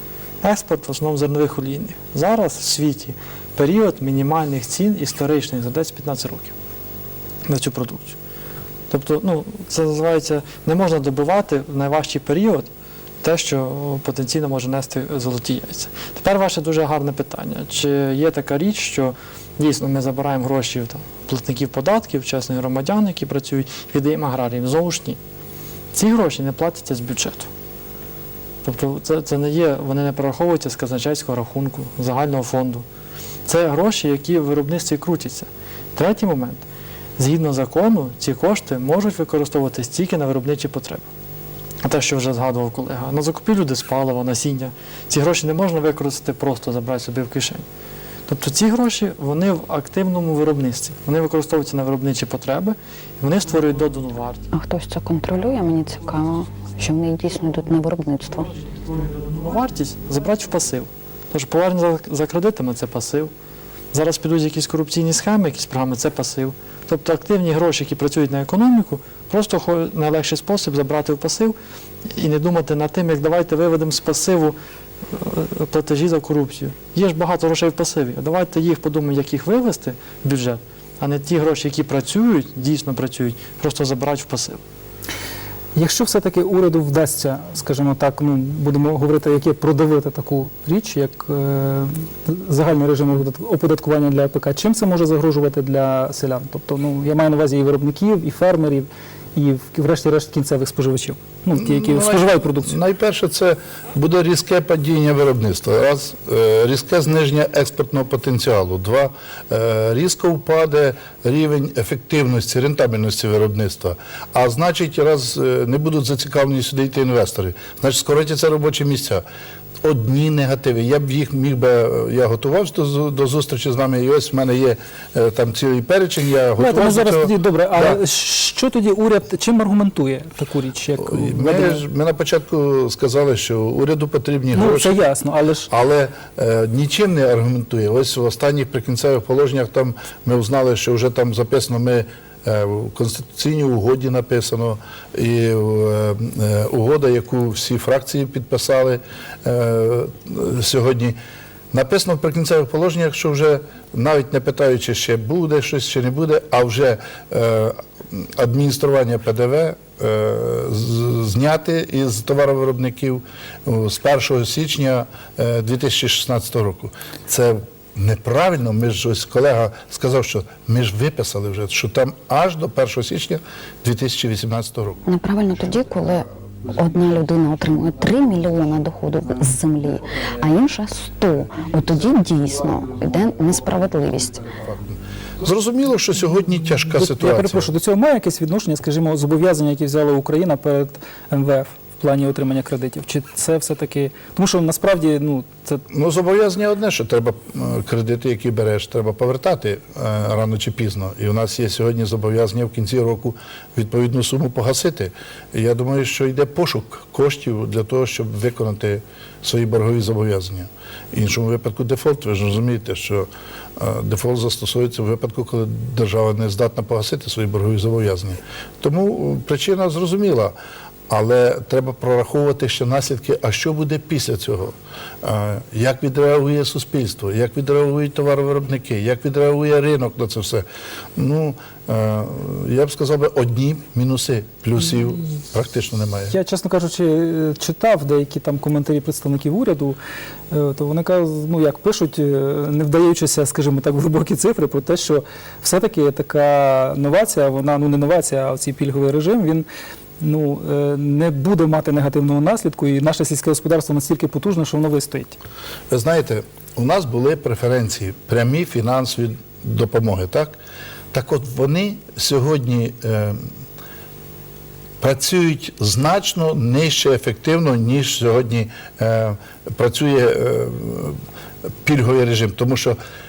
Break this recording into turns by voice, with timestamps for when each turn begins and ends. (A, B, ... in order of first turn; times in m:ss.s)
0:00.4-0:06.6 A
0:07.5-0:08.2 A
0:08.9-0:12.7 A
0:13.2-0:25.2 A
0:25.9-0:27.5 A
0:28.6-0:32.8 A
0:33.5-0:36.7 A
0:37.2-0:41.1 A
0:41.8-0:47.6 A
0:48.3-0:54.5 A
0:54.5-0:58.5 B
0:59.0-1:03.3 A
1:03.9-1:11.6 A
1:12.1-1:14.6 A
1:15.1-1:24.6 A
1:25.8-1:42.8 C
1:41.6-1:59.2 D
1:59.8-2:08.0 D
2:06.6-2:11.8 C
2:11.0-2:15.0 D
2:14.5-2:15.7 C
2:15.7-2:31.2 D
2:31.7-2:55.0 D
2:55.1-3:04.5 B
3:04.6-3:07.7 D
3:06.9-3:15.8 C
3:15.9-3:40.6 D
3:41.1-3:50.6 D
3:51.2-3:56.3 D
3:56.3-4:00.0 C
4:00.5-4:09.7 C
4:10.2-4:15.4 C
4:15.9-4:20.6 D
4:21.1-4:23.5 D
4:25.0-4:31.2 D
4:31.8-4:33.0 D